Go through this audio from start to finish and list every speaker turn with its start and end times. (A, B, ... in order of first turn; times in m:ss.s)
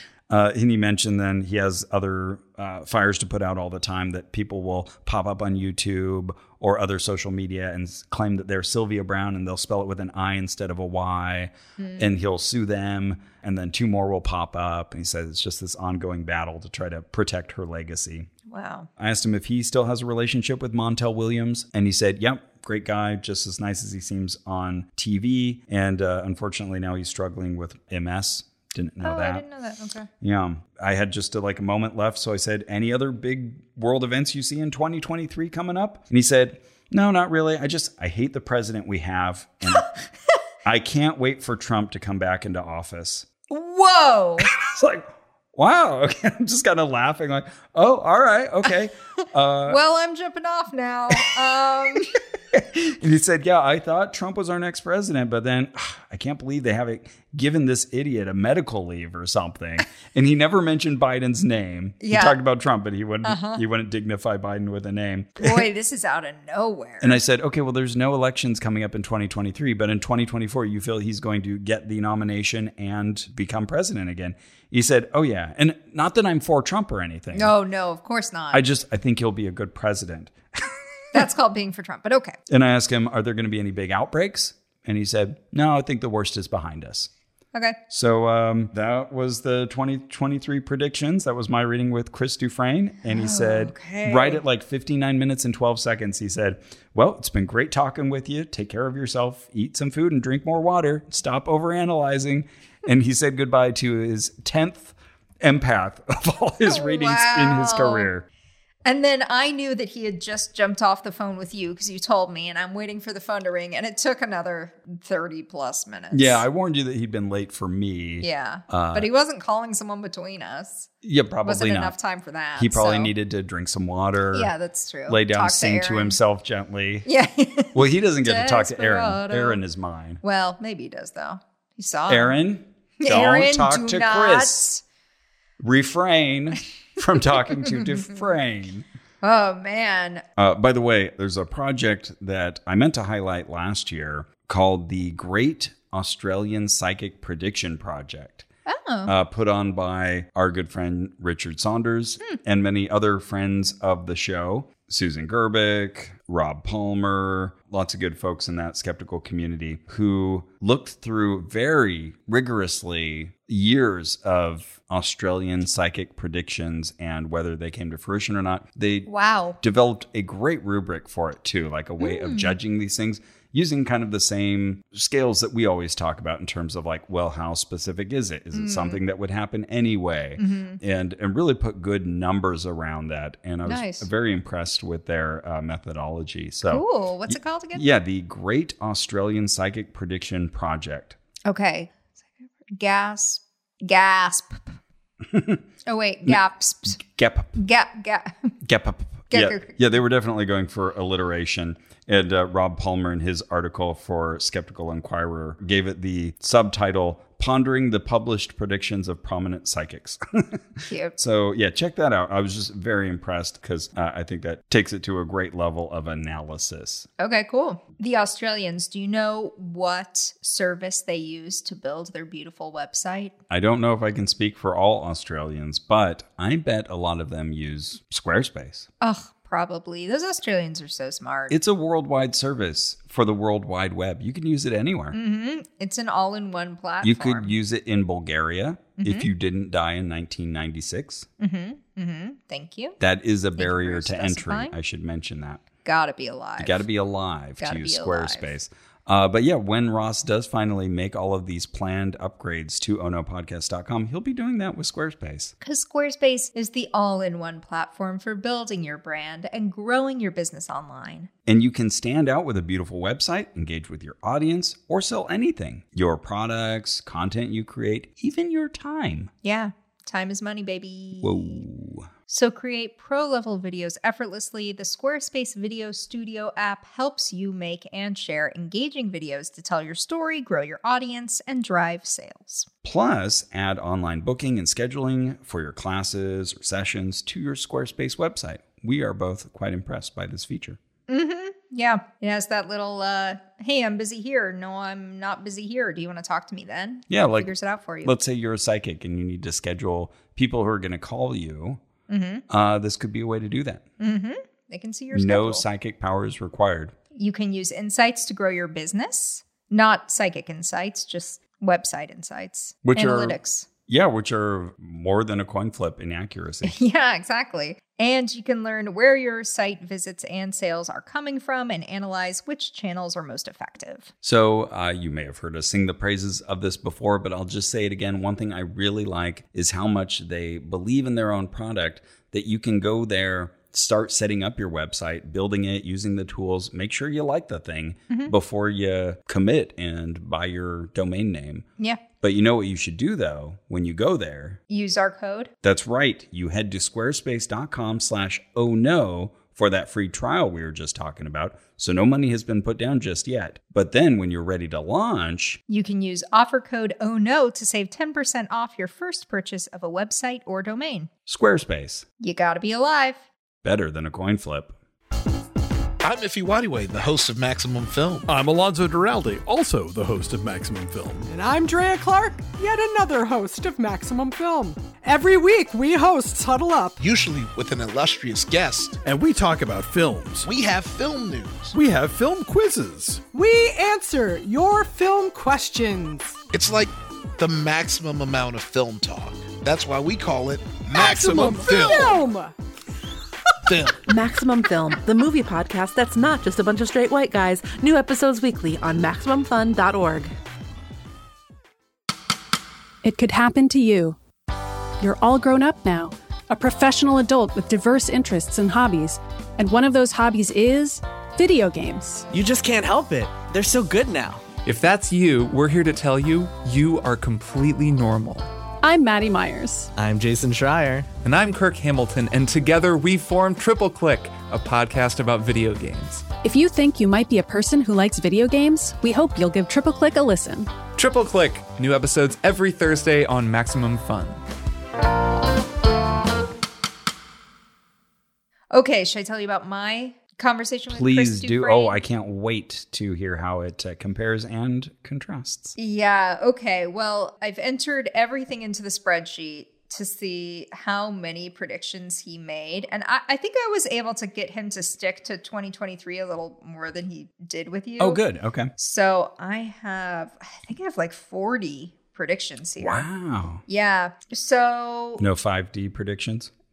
0:00.3-0:18.3 A
0:11.8-0:12.1 B
0:18.5-0:18.9 B
0:19.0-0:29.4 A
0:29.0-0:30.1 B
0:30.2-0:39.9 A
0:40.6-0:43.3 A
0:43.5-0:44.5 B
0:44.4-0:49.8 A
0:49.7-0:52.1 B
0:52.5-1:05.7 A
1:02.0-1:02.4 B
1:03.2-1:03.6 B
1:05.4-1:07.2 B
1:07.0-1:17.5 A
1:17.3-1:18.6 B
1:18.5-1:21.2 A
1:21.1-1:22.4 B
1:22.5-1:27.1 A
1:27.9-1:48.3 A
1:33.1-1:34.4 B
1:46.6-1:48.1 B
1:48.8-1:56.4 B
1:56.1-1:59.1 A
1:58.2-2:00.9 B
2:01.0-2:02.0 A
2:01.4-2:03.1 B
2:02.6-2:04.5 A
2:04.3-2:06.2 B
2:05.1-2:07.1 A
2:07.1-2:09.6 B
2:07.7-2:10.2 A
2:10.2-2:12.4 B
2:12.1-2:14.7 A
2:13.0-2:14.8 B
2:15.6-2:18.9 A
2:17.6-2:18.0 B
2:19.2-2:20.2 B
2:20.4-2:28.5 A
2:28.7-2:29.1 B
2:29.1-3:11.2 A
2:49.1-2:49.6 B
2:52.0-2:52.6 B
2:58.5-2:59.0 B
3:00.4-3:00.8 B
3:03.6-3:04.1 B
3:06.7-3:07.8 B
3:11.5-3:11.9 B
3:12.7-3:14.8 B
3:15.2-3:15.6 A
3:15.9-3:17.0 B
3:16.9-3:17.6 A
3:17.6-3:18.6 B
3:18.6-3:37.1 A
3:19.3-3:19.8 B
3:30.9-3:31.2 B
3:37.2-3:43.4 B
3:43.5-3:48.9 A
3:49.0-3:51.6 B
3:51.5-3:55.2 A
3:55.1-3:57.6 B
3:57.0-4:01.3 A
3:59.0-3:59.3 B
4:01.4-4:03.0 B
4:03.0-4:05.6 A
4:03.6-4:04.8 B
4:05.8-4:06.8 B
4:06.6-4:15.5 A
4:07.6-4:08.5 B
4:15.6-4:21.3 B
4:21.5-4:29.3 A
4:29.4-4:31.6 B
4:31.2-4:32.1 A
4:32.3-4:42.7 B
4:42.8-4:50.8 A
4:51.1-4:58.1 B
4:57.1-4:57.5 A
4:58.0-5:01.8 A
5:02.1-5:02.4 B
5:02.5-5:03.8 A
5:04.0-5:05.6 B
5:05.1-5:07.0 A
5:07.1-5:13.7 B
5:12.8-5:13.4 A
5:13.9-5:16.8 A
5:16.7-5:24.1 B
5:24.2-5:41.7 A
5:42.2-5:44.6 A
5:44.7-5:45.5 B
5:45.6-5:55.6 A
5:55.7-6:01.1 B
6:01.3-6:02.0 A
6:02.2-6:03.2 B
6:03.6-6:04.8 A
6:06.0-6:08.3 C
6:08.3-6:11.3 D
6:11.3-6:17.0 E
6:17.0-6:19.0 C
6:19.0-6:20.5 D
6:20.5-6:21.7 C
6:21.7-6:23.2 D
6:23.3-6:26.4 E
6:26.5-6:32.2 C
6:31.0-6:32.5 E
6:33.7-6:34.0 C
6:34.0-6:40.3 F
6:43.0-6:44.2 G
6:45.0-6:52.3 G
6:52.3-6:54.5 H
6:54.6-6:58.5 I
6:58.8-6:59.9 G
7:00.0-7:01.1 H
7:01.2-7:06.3 I
7:06.4-7:10.7 G
7:11.0-7:14.4 I
7:18.7-7:22.0 B
7:20.9-7:25.8 A
7:25.8-7:38.2 B
7:38.0-7:38.7 A
7:38.8-7:43.0 B
7:42.8-7:43.6 A
7:43.7-7:45.2 B
7:45.2-7:46.5 A